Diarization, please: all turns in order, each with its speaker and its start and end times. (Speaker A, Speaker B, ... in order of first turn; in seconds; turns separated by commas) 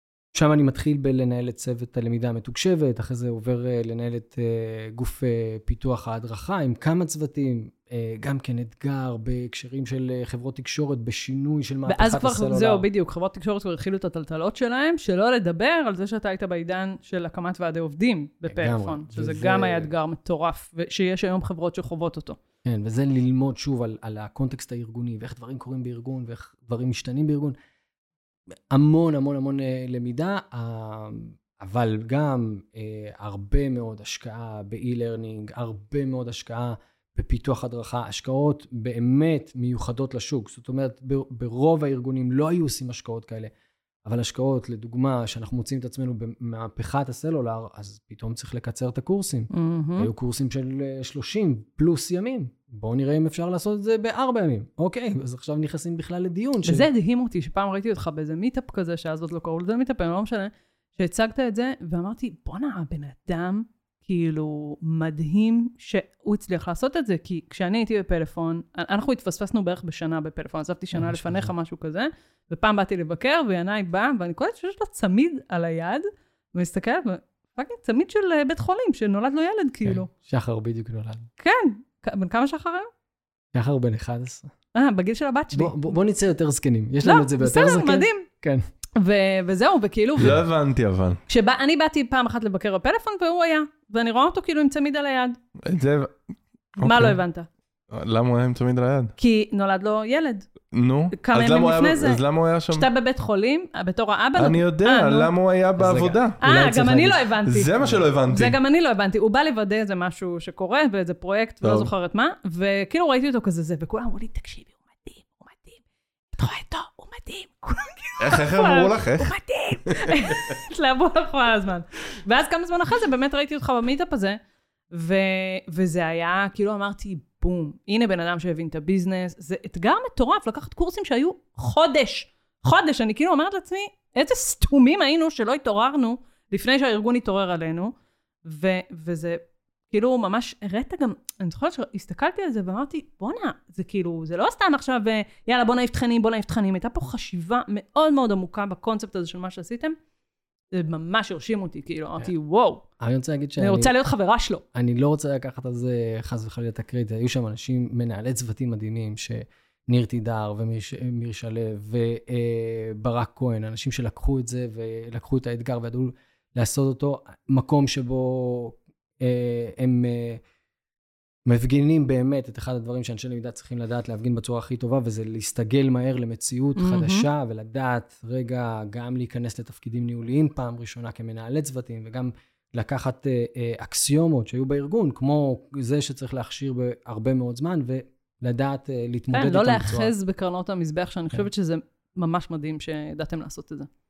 Speaker A: 0.3-12.9, Speaker B: 11.9-22.4, Speaker A: 18.5-19.9, Speaker A: 22.6-27.6, Speaker A: 28.7-43.5, Speaker A: 44.0-56.9, Speaker B: 49.5-50.1, Speaker B: 56.6-80.1, Speaker A: 70.9-71.5, Speaker A: 79.8-81.3, Speaker B: 81.4-82.9, Speaker A: 83.5-84.5, Speaker B: 84.7-85.8, Speaker A: 85.5-88.6, Speaker B: 87.0-88.3, Speaker B: 89.0-90.4, Speaker C: 90.2-91.2, Speaker B: 91.3-95.4, Speaker C: 95.6-96.1, Speaker C: 96.8-97.2, Speaker B: 96.8-97.5, Speaker C: 97.9-99.1, Speaker B: 99.2-100.5, Speaker C: 100.7-102.9, Speaker B: 101.1-102.2, Speaker B: 102.7-105.3, Speaker C: 104.4-106.4, Speaker A: 105.8-108.0, Speaker B: 106.4-107.7, Speaker C: 107.5-108.6, Speaker B: 108.3-115.8, Speaker C: 111.6-111.9, Speaker B: 116.3-124.4, Speaker C: 118.2-119.3, Speaker C: 119.9-120.3, Speaker B: 124.9-137.9, Speaker B: 138.4-149.9, Speaker B: 150.7-152.8, Speaker A: 153.0-153.9, Speaker B: 153.6-154.6, Speaker A: 154.7-170.4, Speaker A: 171.5-190.1, Speaker B: 176.8-177.3, Speaker B: 189.3-193.9